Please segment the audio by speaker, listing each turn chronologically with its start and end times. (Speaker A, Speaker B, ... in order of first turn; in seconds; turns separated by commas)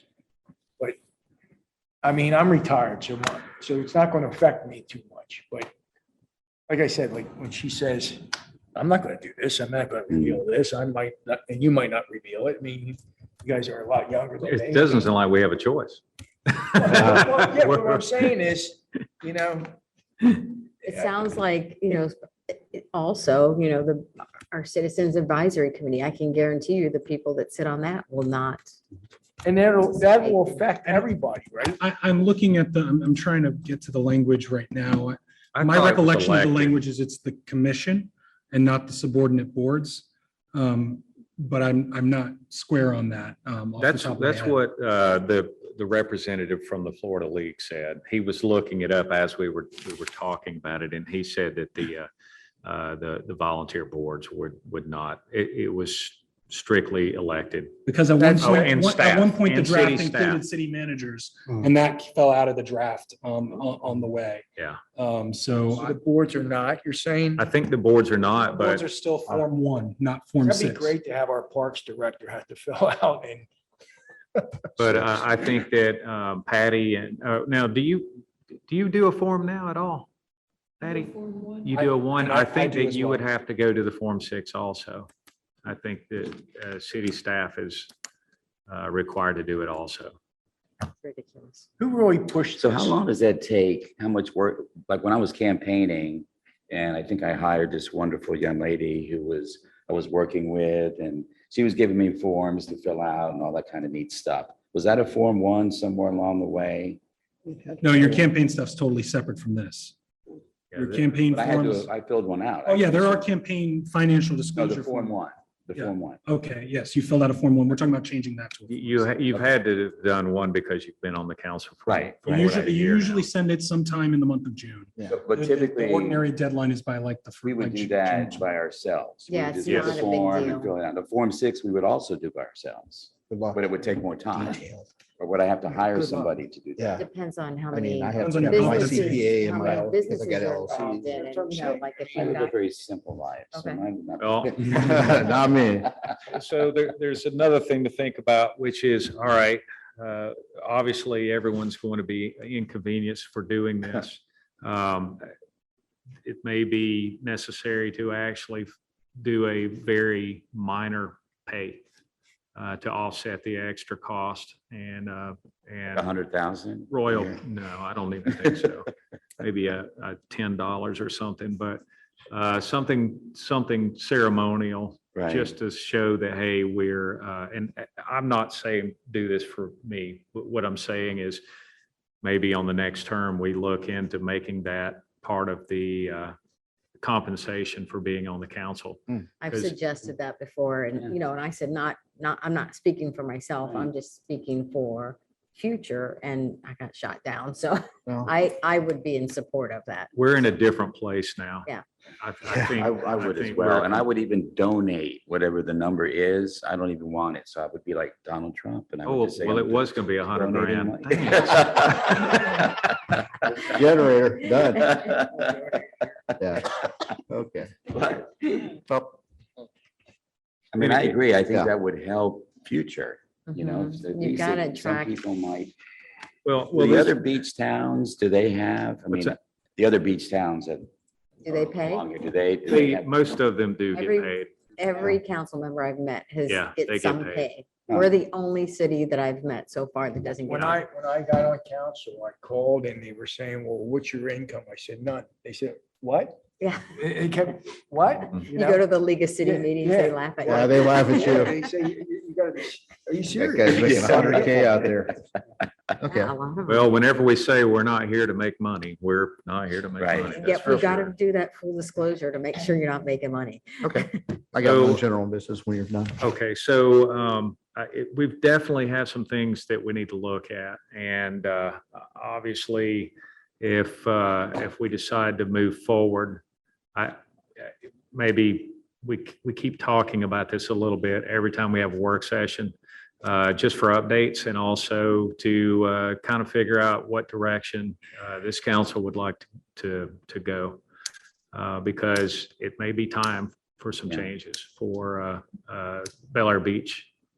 Speaker A: 2.0-5.7, Speaker A: 6.7-8.2, Speaker A: 8.7-15.1, Speaker B: 14.4-18.3, Speaker A: 16.8-19.7, Speaker A: 20.8-21.1, Speaker C: 20.8-28.7, Speaker A: 29.4-31.8, Speaker C: 30.2-30.6, Speaker D: 31.7-44.6, Speaker B: 35.5-36.7, Speaker B: 43.8-52.1, Speaker B: 52.6-57.7, Speaker D: 57.9-66.0, Speaker A: 58.2-58.6, Speaker B: 58.4-60.4, Speaker A: 65.6-67.4, Speaker B: 67.3-68.8, Speaker D: 68.5-70.9, Speaker A: 70.4-73.5, Speaker B: 74.8-80.1, Speaker B: 80.8-85.1, Speaker A: 81.7-83.3, Speaker B: 85.6-87.9, Speaker B: 88.7-90.1, Speaker C: 91.0-91.7, Speaker A: 91.8-92.9, Speaker E: 92.6-107.0, Speaker D: 107.8-109.9, Speaker B: 110.7-111.1, Speaker D: 110.7-111.9, Speaker E: 111.2-113.2, Speaker D: 112.6-115.1, Speaker E: 114.5-116.2, Speaker D: 115.8-119.1, Speaker B: 118.7-123.2, Speaker E: 121.9-122.6, Speaker D: 122.2-128.5, Speaker E: 125.1-126.2, Speaker E: 127.4-134.6, Speaker C: 129.3-130.7, Speaker B: 129.6-130.2, Speaker F: 133.3-134.8, Speaker E: 135.2-137.0, Speaker F: 135.9-137.0, Speaker C: 136.9-142.5, Speaker F: 137.7-141.2, Speaker D: 138.2-139.2, Speaker A: 140.7-142.3, Speaker E: 142.1-145.9, Speaker C: 143.5-143.8, Speaker B: 144.2-145.3, Speaker F: 144.6-145.9, Speaker B: 146.3-155.2, Speaker B: 156.2-161.8, Speaker B: 162.5-166.1, Speaker E: 165.9-167.4, Speaker B: 166.9-168.9, Speaker B: 169.4-181.4, Speaker E: 175.1-175.5, Speaker B: 182.2-186.3, Speaker B: 187.0-189.8, Speaker C: 189.4-200.1, Speaker E: 193.6-193.9, Speaker B: 200.1-201.7, Speaker B: 202.2-204.0, Speaker F: 202.5-203.4, Speaker E: 203.2-212.9, Speaker B: 209.0-212.1, Speaker F: 213.6-215.0, Speaker E: 214.8-215.7, Speaker F: 216.4-216.7, Speaker F: 217.3-217.7, Speaker E: 217.9-218.8, Speaker F: 218.8-219.2, Speaker E: 220.7-225.7, Speaker B: 220.8-221.2, Speaker C: 223.5-225.2, Speaker B: 226.4-227.2, Speaker E: 226.7-230.9, Speaker C: 231.4-232.1, Speaker E: 231.4-233.3, Speaker B: 232.7-234.5, Speaker C: 233.9-240.8, Speaker B: 236.5-237.5, Speaker E: 237.9-238.1, Speaker A: 240.4-246.4, Speaker C: 246.6-246.9, Speaker A: 246.9-248.9, Speaker C: 248.5-251.7, Speaker A: 249.4-254.9, Speaker F: 250.4-251.6, Speaker F: 253.4-255.1, Speaker E: 253.8-255.0, Speaker F: 256.0-256.3, Speaker C: 256.1-256.9, Speaker B: 256.7-261.1, Speaker E: 260.0-260.4, Speaker C: 260.3-264.2, Speaker F: 263.8-266.1, Speaker B: 264.6-265.0, Speaker B: 266.2-276.4, Speaker B: 278.1-290.8, Speaker B: 291.5-297.1